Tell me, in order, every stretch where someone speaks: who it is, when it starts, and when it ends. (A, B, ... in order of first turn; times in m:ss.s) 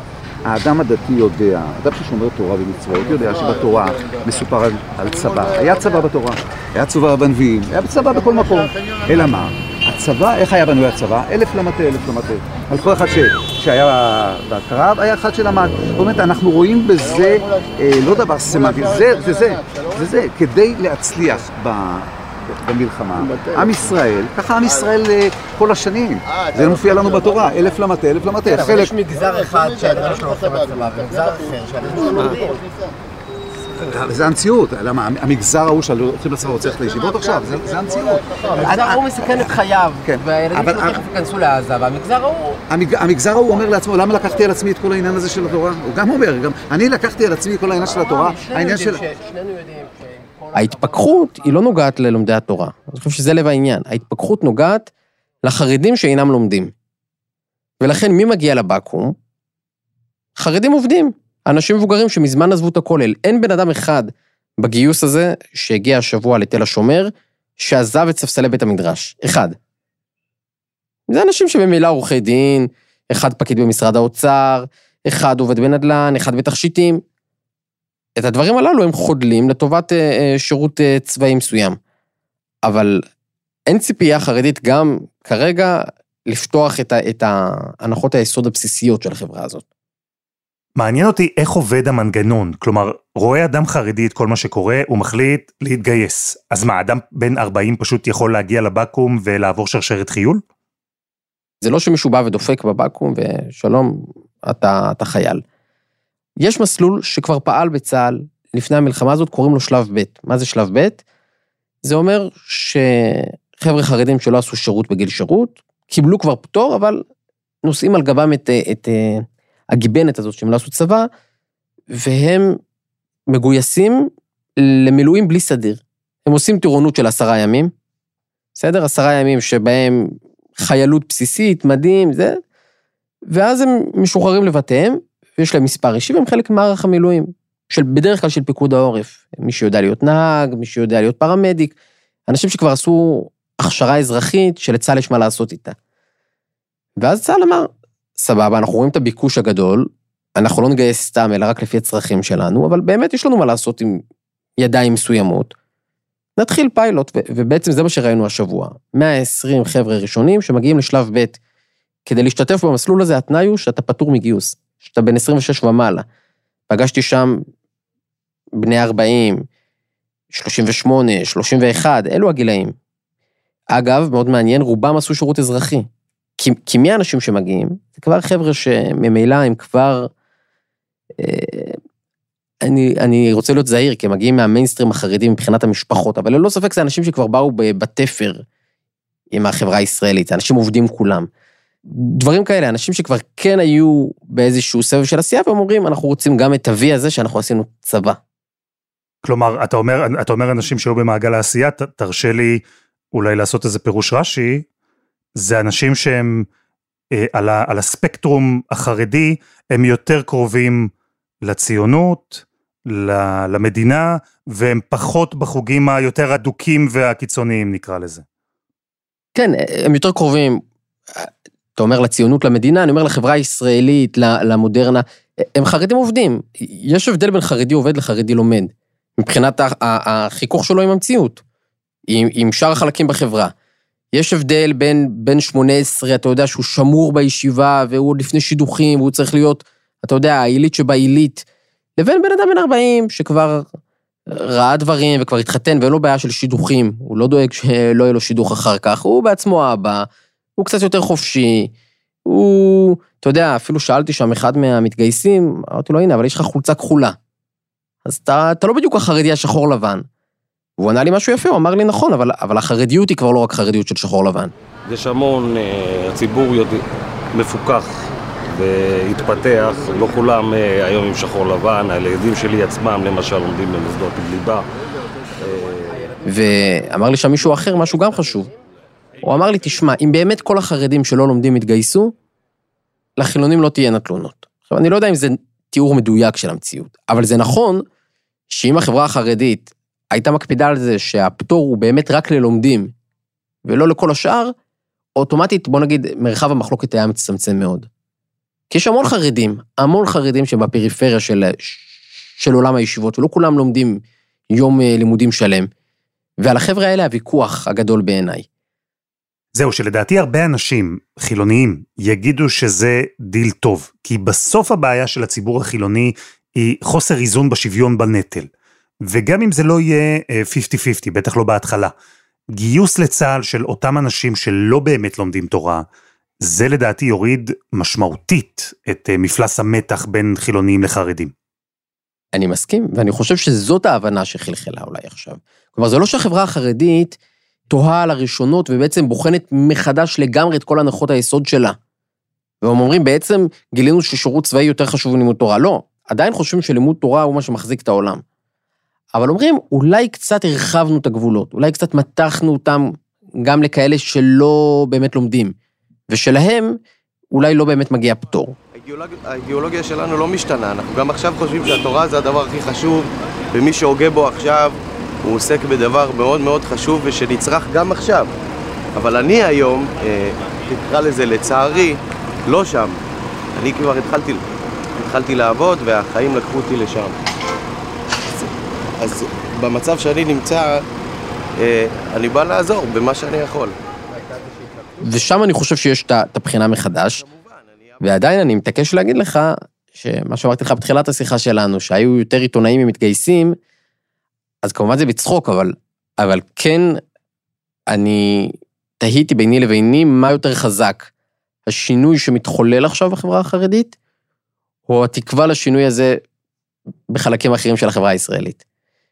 0:00.4-0:28.9 A
0:28.4-0:32.6 B
0:33.8-0:39.5 A
0:38.5-0:42.6 B
0:40.0-0:41.0 A
0:42.7-0:49.0 A
0:48.4-0:49.9 B
0:50.5-0:54.9 B
0:55.4-0:56.7 B
0:57.8-0:59.2 B
1:00.4-1:09.6 B
1:11.1-1:17.0 B
1:18.2-1:21.8 B
1:22.6-1:23.0 B
1:23.7-1:29.6 B
1:30.8-1:40.4 C
1:41.6-1:45.4 B
1:46.4-1:51.0 B
1:51.8-1:57.0 B
1:57.6-2:01.1 B
2:01.9-2:02.6 B
2:03.3-2:07.7 B
2:08.6-2:12.4 B
2:13.3-2:21.7 B
2:22.3-2:25.8 B
2:27.0-2:34.0 B
2:34.6-2:35.5 B
2:36.4-2:41.4 B
2:42.0-2:46.0 B
2:46.7-2:47.4 B
2:48.6-2:49.4 B
2:50.3-2:52.7 B
2:53.7-3:00.1 B
3:01.2-3:01.8 B
3:02.6-3:08.4 B
3:09.3-3:11.3 B
3:11.9-3:18.2 B
3:19.2-3:22.6 C
3:23.1-3:24.6 C
3:25.4-3:26.4 C
3:27.2-3:30.9 C
3:31.4-3:38.2 C
3:39.3-3:51.4 B
3:52.1-3:53.5 B
3:54.1-4:01.4 B
4:02.0-4:03.7 B
4:04.3-4:11.7 B
4:12.2-4:17.2 B
4:18.0-4:20.0 B
4:20.8-4:24.5 B
4:24.9-4:34.7 D
4:35.4-4:36.0 D
4:36.2-4:38.5 B
4:39.2-4:42.1 B
4:43.2-4:47.8 B
4:48.5-4:52.9 B
4:53.6-4:54.5 B
4:55.2-4:57.9 B
4:58.7-5:05.7 B
5:06.4-5:08.4 B
5:09.5-5:18.5 C
5:19.0-5:21.9 C
5:22.5-5:25.8 C
5:26.4-5:31.3 C
5:32.3-5:37.2 B
5:37.7-5:41.8 B
5:42.6-5:48.2 B
5:49.1-5:55.6 B
5:56.1-5:56.8 B
5:57.3-5:58.6 B
5:58.7-6:08.3 E
6:09.0-6:13.0 E
6:13.6-6:14.4 E
6:15.0-6:17.2 E
6:19.0-6:20.8 E
6:21.6-6:23.7 E
6:25.0-6:27.2 B
6:27.2-6:28.0 E
6:28.0-6:33.6 B
6:34.6-6:37.0 B
6:37.9-6:41.1 B
6:41.7-6:44.0 B
6:44.9-6:46.2 B
6:47.1-6:48.6 B